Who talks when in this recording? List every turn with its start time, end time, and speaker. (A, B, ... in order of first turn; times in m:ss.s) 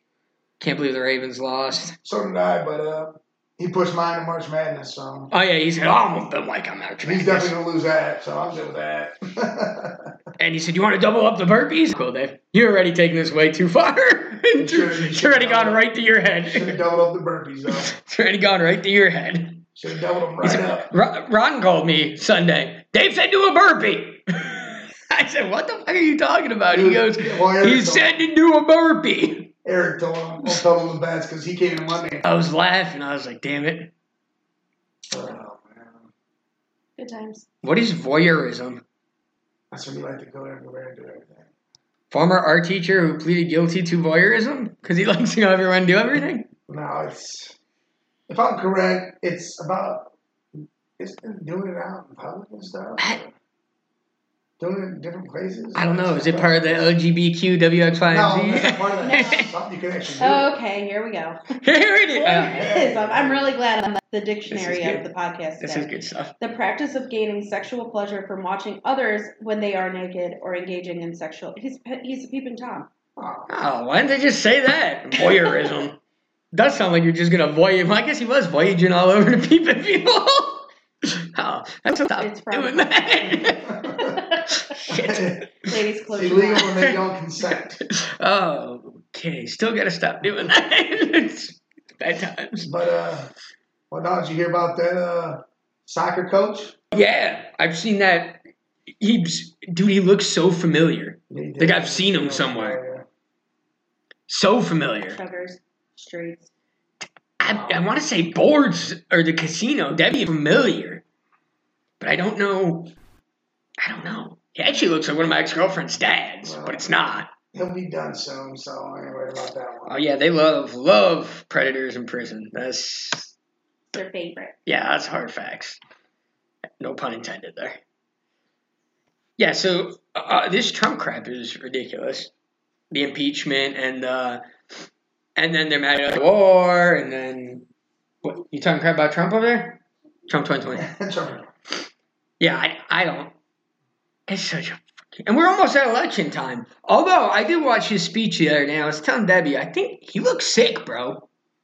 0:00.6-0:02.0 A
0:02.0-0:05.3 B
0:05.3-0:07.5 A
0:07.0-0:10.2 B
0:10.4-0:16.8 A
0:14.6-0:15.9 B
0:16.4-0:17.9 B
0:17.7-0:19.7 A
0:19.8-0:20.9 B
0:20.4-0:29.5 A
0:26.7-0:28.3 B
0:29.6-0:32.2 B
0:32.2-0:33.9 A
0:35.1-0:36.1 B
0:37.0-0:37.5 C
0:37.6-0:38.8 A
0:39.7-0:41.5 B
0:42.1-0:46.5 A
0:46.7-0:47.6 B
0:48.3-0:53.3 B
0:54.6-0:56.9 B
0:55.8-0:59.5 A
0:58.1-1:00.5 B
0:59.0-0:59.5 C
1:00.2-1:01.5 C
1:01.6-1:02.7 A
1:02.1-1:12.9 C
1:02.5-1:03.5 B
1:04.5-1:05.1 A
1:05.6-1:06.4 A
1:13.2-1:13.5 B
1:13.5-1:16.0 A
1:16.5-1:23.9 A
1:22.2-1:24.6 C
1:23.7-1:24.0 B
1:24.7-1:25.8 A
1:24.9-1:25.5 B
1:25.6-1:26.9 C
1:26.1-1:27.8 B
1:26.6-1:27.0 A
1:27.8-1:32.7 A
1:32.6-1:33.3 B
1:33.9-1:36.8 B
1:36.9-1:38.4 A
1:39.0-1:42.8 A
1:41.3-1:43.1 B
1:44.3-1:45.2 A
1:45.1-1:46.5 C
1:47.4-1:51.0 A
1:47.5-1:47.9 B
1:52.0-1:52.9 A
1:53.8-1:57.3 A
1:56.4-1:56.9 B
1:57.5-2:00.0 B
1:59.9-2:03.3 A
2:03.9-2:04.6 C
2:04.7-2:05.8 A
2:06.8-2:07.8 A
2:09.4-2:12.3 A
2:12.9-2:14.4 A
2:15.4-2:17.7 A
2:18.2-2:20.9 A
2:20.8-2:21.5 B
2:22.4-2:23.3 A
2:24.3-2:31.3 A